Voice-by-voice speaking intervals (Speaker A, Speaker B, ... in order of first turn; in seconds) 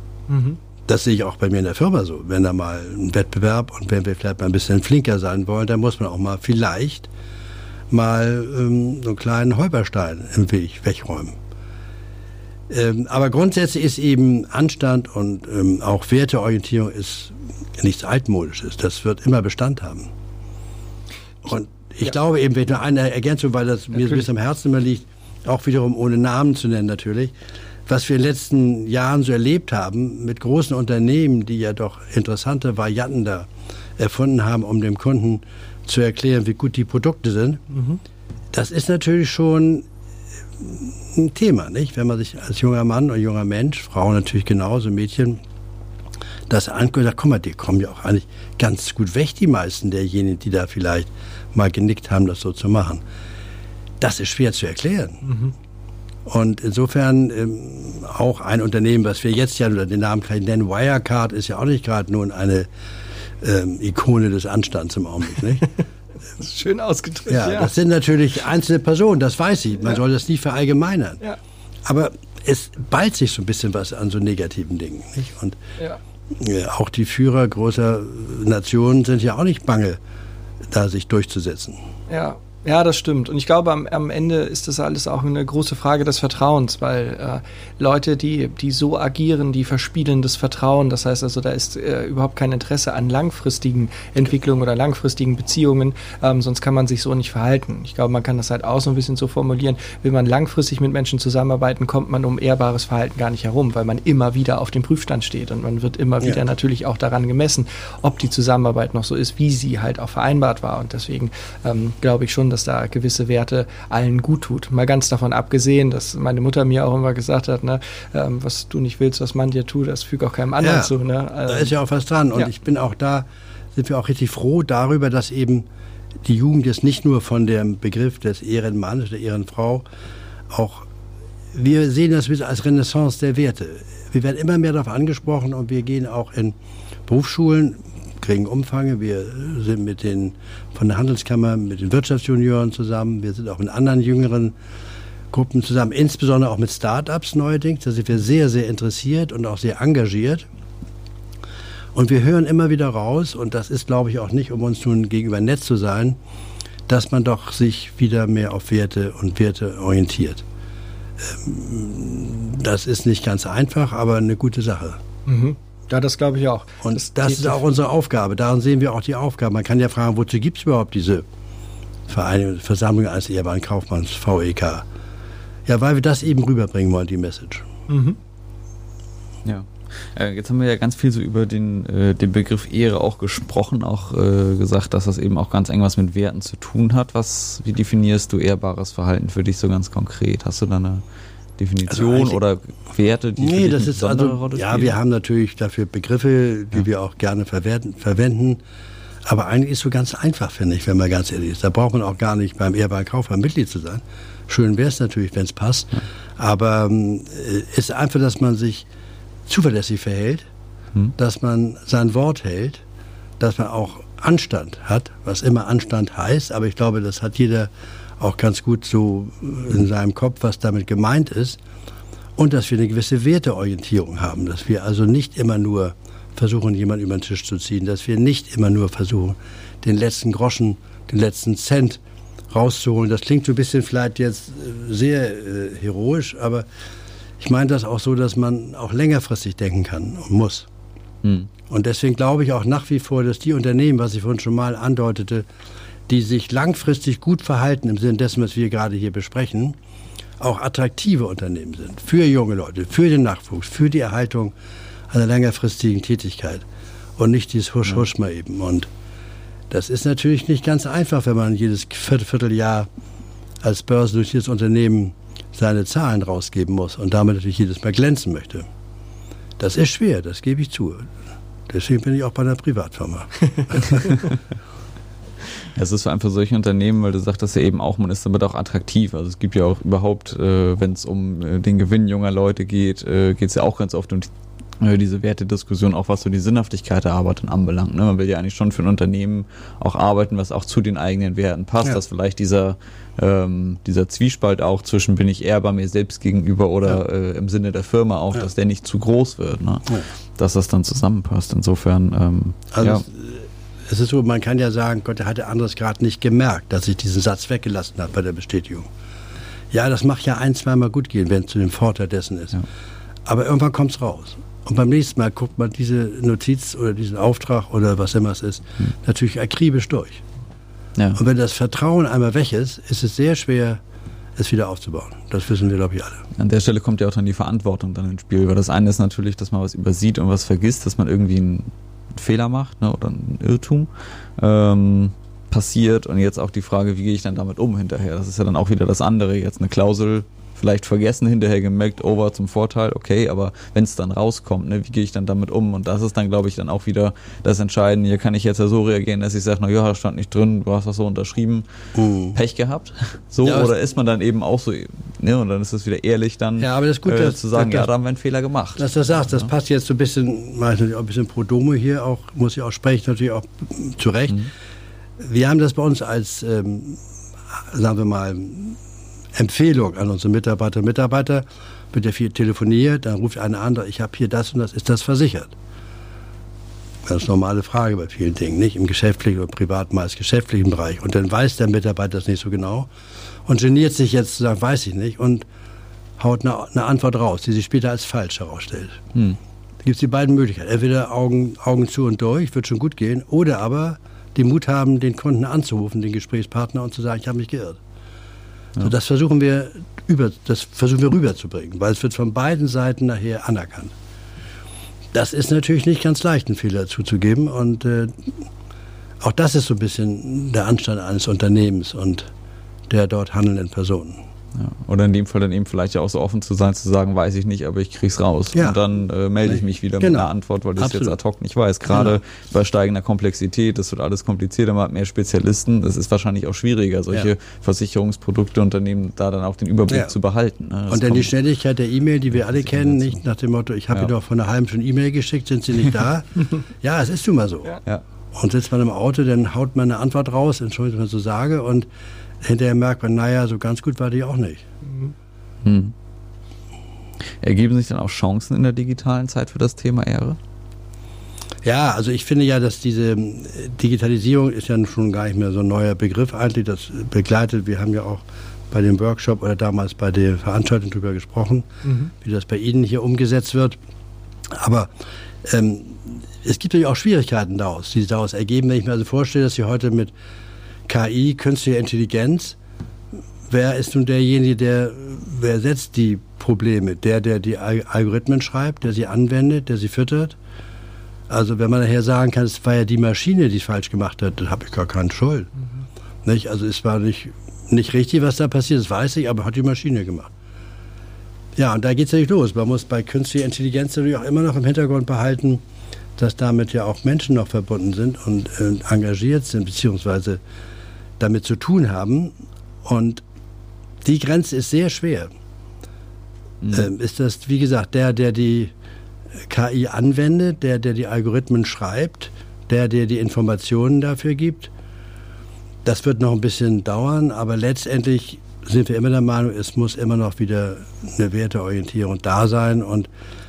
Speaker A: 0.3-0.6, 37.7-38.0, 55.2-55.5, 66.4-67.7, 82.1-121.7, 165.3-167.6, 177.9-178.2, 444.8-445.1, 461.8-462.1
Speaker B: 0.9-7.1, 7.9-11.3, 12.7-20.1, 21.4-27.3, 27.9-37.6, 38.5-39.9, 40.6-45.4, 46.5-53.0, 54.0-55.2, 56.2-62.7, 63.4-65.7, 67.3-71.2, 71.8-75.6, 76.3-80.0, 80.7-81.8, 120.6-120.9, 121.5-125.7, 126.2-129.8, 130.5-130.9, 131.5-144.5, 145.3-150.4, 151.9-156.2, 156.9-160.4, 161.2-165.0, 166.8-171.2, 172.1-174.8, 175.7-177.7, 191.9-192.4, 193.4-198.6, 199.2-208.8, 209.5-210.5, 211.2-212.8, 213.4-221.6, 222.3-236.7, 237.4-240.7, 241.7-245.4, 246.1-249.8, 250.4-254.5, 255.1-256.6, 257.2-258.9, 259.7-262.9, 263.6-268.7, 269.6-271.1, 271.7-274.2, 302.7-308.9, 309.7-312.6, 313.2-320.2, 321.1-323.8, 324.4-326.2, 351.9-352.4, 353.4-353.7, 356.6-357.9, 358.8-364.5, 365.2-367.0, 367.5-368.8, 369.3-375.5, 377.0-382.9, 383.4-385.4, 386.2-389.0, 389.8-397.8, 398.8-403.9, 405.1-408.3, 409.2-412.3, 412.9-414.2, 419.4-421.1, 421.9-422.2, 429.9-430.1, 430.9-437.8, 438.3-441.9, 442.4-444.6, 451.6-463.8, 464.5-464.9, 465.4-470.1, 470.9-472.6, 473.5-480.4, 481.3-485.5, 486.2-490.3, 491.6-495.6, 496.2-500.4, 501.2-503.2, 504.0-505.3, 506.7-508.7, 509.5-514.7, 515.8-523.1
Speaker C: 179.4-191.0, 191.6-194.9, 241.2-241.5, 275.7-284.3, 284.8-303.0, 326.4-351.6, 352.3-358.9, 414.5-431.3, 432.6-433.1, 445.6-445.9, 447.4-450.4, 506.6-506.9